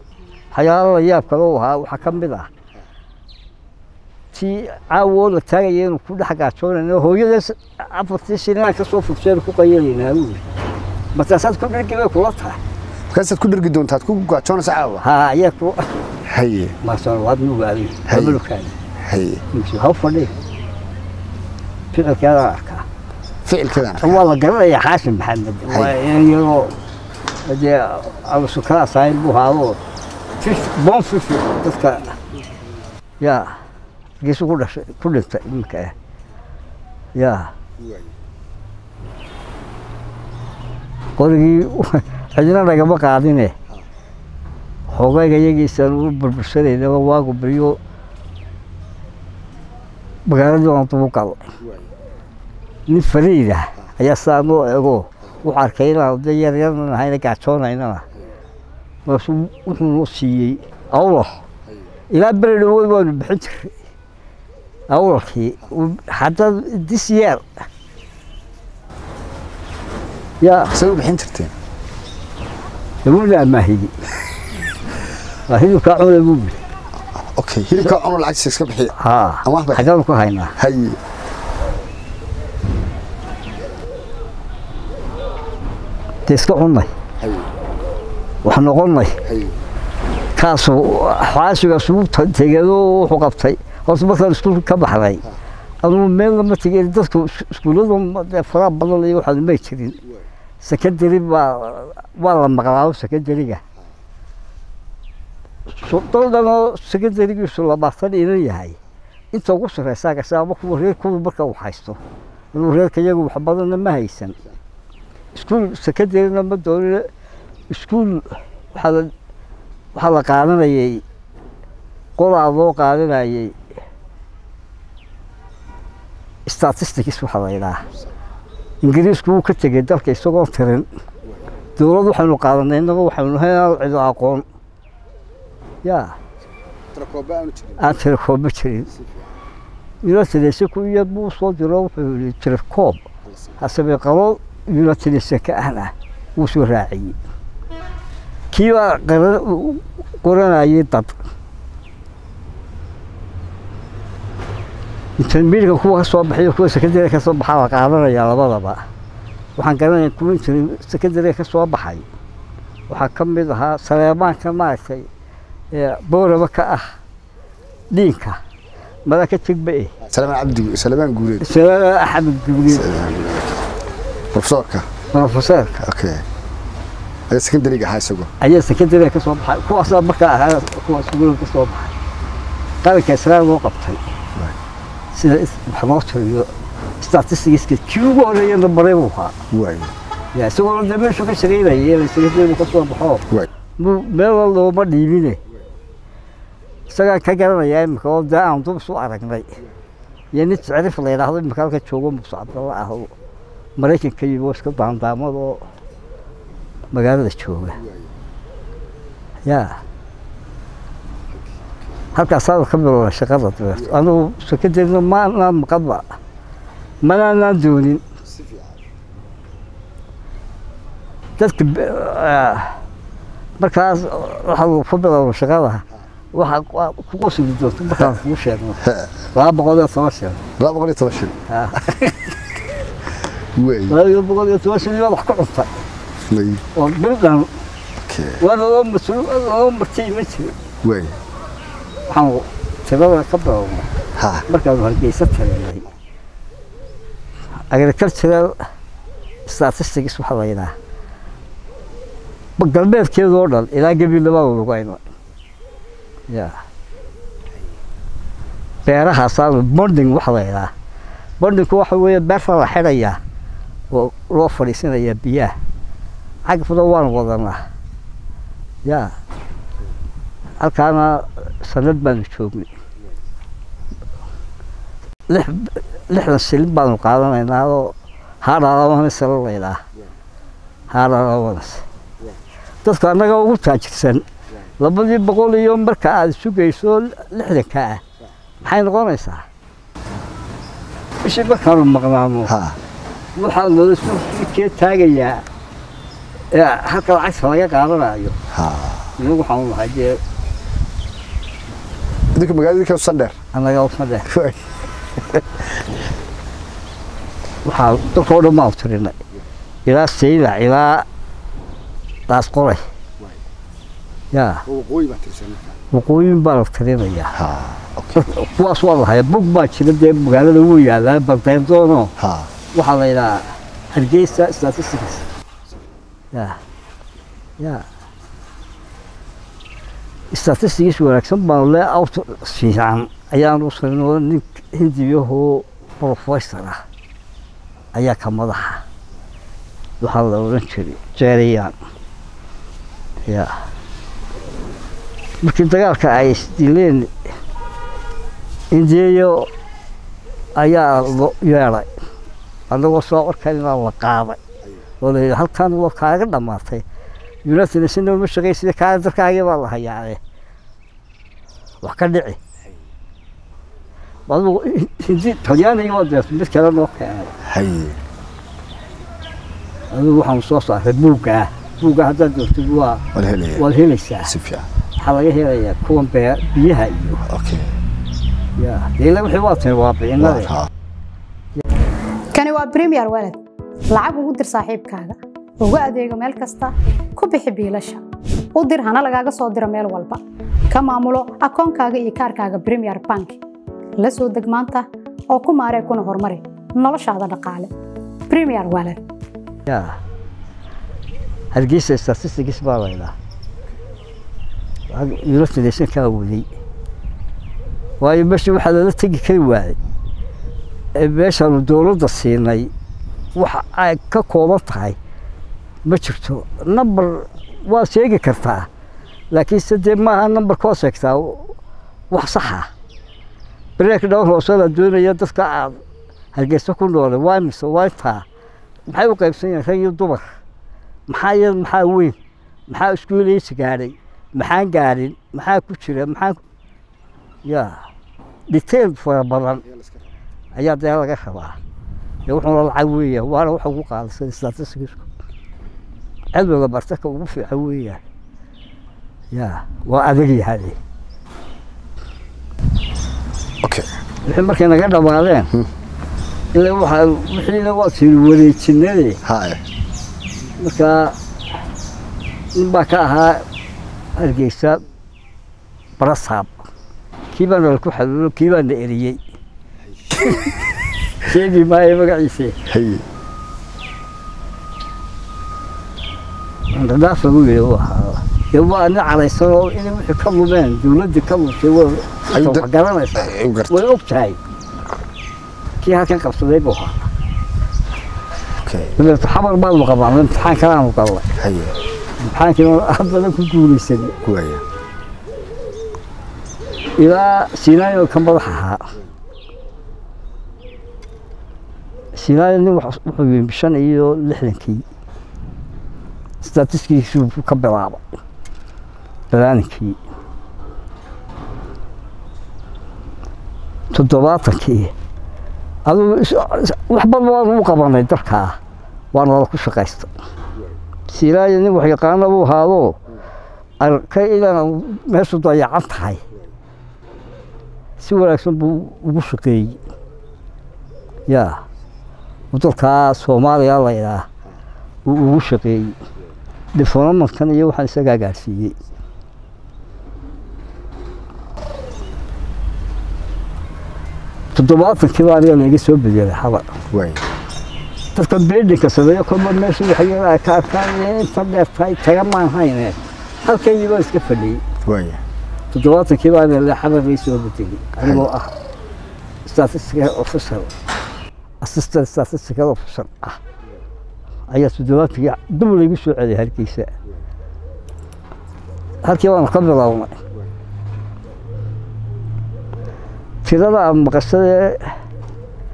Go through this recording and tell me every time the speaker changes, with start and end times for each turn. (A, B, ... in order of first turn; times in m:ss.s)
0:00.5-0:02.5 A
0:04.3-0:10.4 A
0:11.1-0:12.6 A
0:13.1-0:15.0 B
0:15.0-0:15.9 A
0:16.2-0:16.8 B
0:16.8-0:18.7 A
0:18.1-0:18.4 B
0:19.0-0:19.4 B
0:19.5-0:20.3 A
0:21.9-0:22.9 A
0:23.4-0:24.2 B
0:24.0-0:26.7 A
0:25.7-0:26.0 B
0:27.4-0:29.8 A
0:30.4-0:32.2 A
0:33.2-0:33.6 A
0:34.2-0:35.9 A
0:37.2-0:37.5 A
0:41.2-0:43.5 A
0:44.9-0:47.8 A
0:50.3-0:51.5 A
0:52.9-0:58.1 A
0:59.1-1:01.4 A
1:02.1-1:03.8 A
1:04.9-1:07.5 A
1:10.4-1:10.7 A
1:10.7-1:11.5 B
1:13.0-1:14.0 A
1:15.5-1:16.6 A
1:17.2-1:19.9 B
1:19.0-1:20.5 A
1:20.6-1:21.0 B
1:26.3-1:26.9 A
1:27.2-1:27.5 B
1:28.4-1:29.2 A
1:29.2-1:29.6 B
1:30.4-1:35.2 A
1:35.8-1:40.0 A
1:40.6-1:43.6 A
1:45.8-1:48.8 A
1:49.3-1:52.0 A
1:52.5-1:54.4 A
1:55.4-1:57.1 A
1:57.7-1:59.1 A
2:00.0-2:01.0 A
2:02.2-2:03.6 A
2:06.5-2:07.8 A
2:08.8-2:10.9 A
2:11.8-2:14.4 A
2:15.8-2:16.2 A
2:16.9-2:18.0 B
2:17.8-2:18.9 A
2:20.0-2:23.0 A
2:23.3-2:23.6 B
2:23.6-2:27.2 A
2:28.5-2:31.2 A
2:35.2-2:38.8 A
2:39.6-2:42.1 A
2:42.9-2:45.1 A
2:45.7-2:46.9 A
2:47.9-2:48.4 A
2:49.1-2:50.0 A
2:50.1-2:51.5 B
2:51.4-2:52.9 A
2:52.7-2:53.7 B
2:54.3-2:54.9 B
2:55.1-2:55.8 A
2:55.8-2:56.2 B
2:57.3-2:58.3 B
2:58.4-3:02.0 A
3:02.8-3:04.0 A
3:05.1-3:09.4 A
3:09.5-3:09.9 B
3:10.3-3:13.2 A
3:13.8-3:15.4 A
3:16.9-3:19.6 A
3:20.3-3:23.1 A
3:23.8-3:25.6 A
3:26.9-3:27.8 A
3:29.5-3:29.8 A
3:32.1-3:36.0 A
3:37.0-3:38.0 A
3:38.3-3:38.7 B
3:41.4-3:42.8 A
3:43.6-3:50.4 A
3:47.9-3:48.2 B
3:48.8-3:49.1 B
3:50.6-3:51.4 B
3:51.5-3:52.3 A
3:53.6-3:54.0 B
3:53.9-3:55.8 A
3:56.3-3:56.6 B
3:56.8-3:57.5 A
3:58.0-3:58.4 B
3:58.4-4:00.6 A
4:00.8-4:01.2 B
4:02.1-4:03.9 A
4:04.2-4:04.5 B
4:04.5-4:05.9 A
4:07.7-4:08.6 A
4:09.5-4:10.7 A
4:12.6-4:15.0 A
4:16.3-4:16.6 A
4:18.9-4:20.7 A
4:21.4-4:23.2 A
4:23.9-4:25.6 A
4:26.5-4:27.6 A
4:28.8-4:29.1 A
4:30.6-4:32.7 A
4:35.3-4:39.8 A
4:40.9-4:41.8 A
4:42.8-4:44.3 A
4:44.8-4:48.0 A
4:48.6-4:49.5 A
4:51.2-4:52.5 A
4:52.5-4:52.8 B
4:53.4-4:55.4 A
4:56.5-4:58.4 A
4:58.5-4:59.1 B
4:59.2-5:00.2 A
5:02.3-5:03.4 B
5:03.5-5:04.3 A
5:04.3-5:05.9 B
5:07.6-5:09.2 A
5:09.9-5:11.1 A
5:12.3-5:12.9 A
5:14.3-5:14.7 A
5:14.7-5:15.7 B
5:15.9-5:17.4 A
5:17.3-5:18.3 B
5:18.2-5:22.1 A
5:22.2-5:22.5 B
5:22.7-5:25.3 A
5:26.3-5:26.6 A
5:27.6-5:27.9 A
5:30.3-5:36.8 A
5:37.9-5:38.8 A
5:40.0-5:41.8 A
5:43.3-5:43.6 A
5:45.4-5:47.1 A
5:48.7-5:49.5 A
5:50.6-5:51.9 A
5:52.7-5:54.4 A
5:55.0-5:56.8 A
5:57.4-6:00.2 A
6:01.8-6:02.4 A
6:04.3-6:07.3 A
6:07.4-6:08.0 B
6:09.9-6:14.4 A
6:13.1-6:13.6 B
6:14.2-6:14.7 B
6:15.0-6:17.2 A
6:17.2-6:17.7 B
6:18.6-6:20.5 A
6:20.2-6:20.7 B
6:22.3-6:23.4 C
6:23.9-6:28.0 C
6:28.6-6:33.4 C
6:34.0-6:37.7 C
6:38.3-6:39.0 C
6:39.7-6:40.0 A
6:41.5-6:43.1 A
6:44.9-6:46.5 A
6:48.0-6:49.8 A
6:51.0-6:52.7 A
6:53.4-6:55.0 A
6:55.8-6:58.7 A
6:59.3-7:01.6 A
7:02.1-7:02.7 A
7:03.8-7:05.8 A
7:06.3-7:08.3 A
7:08.9-7:10.4 A
7:11.1-7:12.2 A
7:12.7-7:16.4 A
7:17.4-7:17.8 A
7:18.5-7:19.6 A
7:20.6-7:21.6 A
7:22.3-7:25.0 A
7:26.3-7:28.0 A
7:29.3-7:30.8 A
7:34.2-7:35.5 A
7:36.5-7:39.2 A
7:39.2-7:39.6 B
7:40.6-7:41.2 A
7:42.6-7:43.5 A
7:44.2-7:44.8 A
7:46.0-7:46.6 A
7:47.3-7:49.2 A
7:51.2-7:52.6 A
7:52.7-7:53.0 B
7:56.7-8:04.4 A
8:02.3-8:03.8 B
8:05.8-8:07.1 A
8:08.6-8:09.0 B
8:09.0-8:11.3 A
8:11.4-8:11.7 B
8:12.2-8:14.2 A
8:14.2-8:14.6 B
8:17.0-8:18.9 A
8:22.1-8:24.8 A
8:26.4-8:28.0 A
8:29.3-8:30.0 A
8:33.9-8:34.9 A
8:35.9-8:38.6 A
8:39.1-8:40.1 A
8:41.1-8:43.0 A
8:43.8-8:46.2 A
8:48.0-8:49.8 A
8:51.3-8:51.6 A
8:52.5-8:54.3 A
8:55.1-8:56.0 A
8:56.7-8:58.8 A
9:04.5-9:06.7 A
9:06.9-9:07.2 B
9:08.1-9:14.6 A
9:14.8-9:15.2 B
9:15.7-9:18.5 A
9:18.0-9:18.3 B
9:19.5-9:20.7 A
9:21.6-9:23.4 A
9:24.5-9:26.9 A
9:29.0-9:30.2 A
9:33.4-9:35.0 A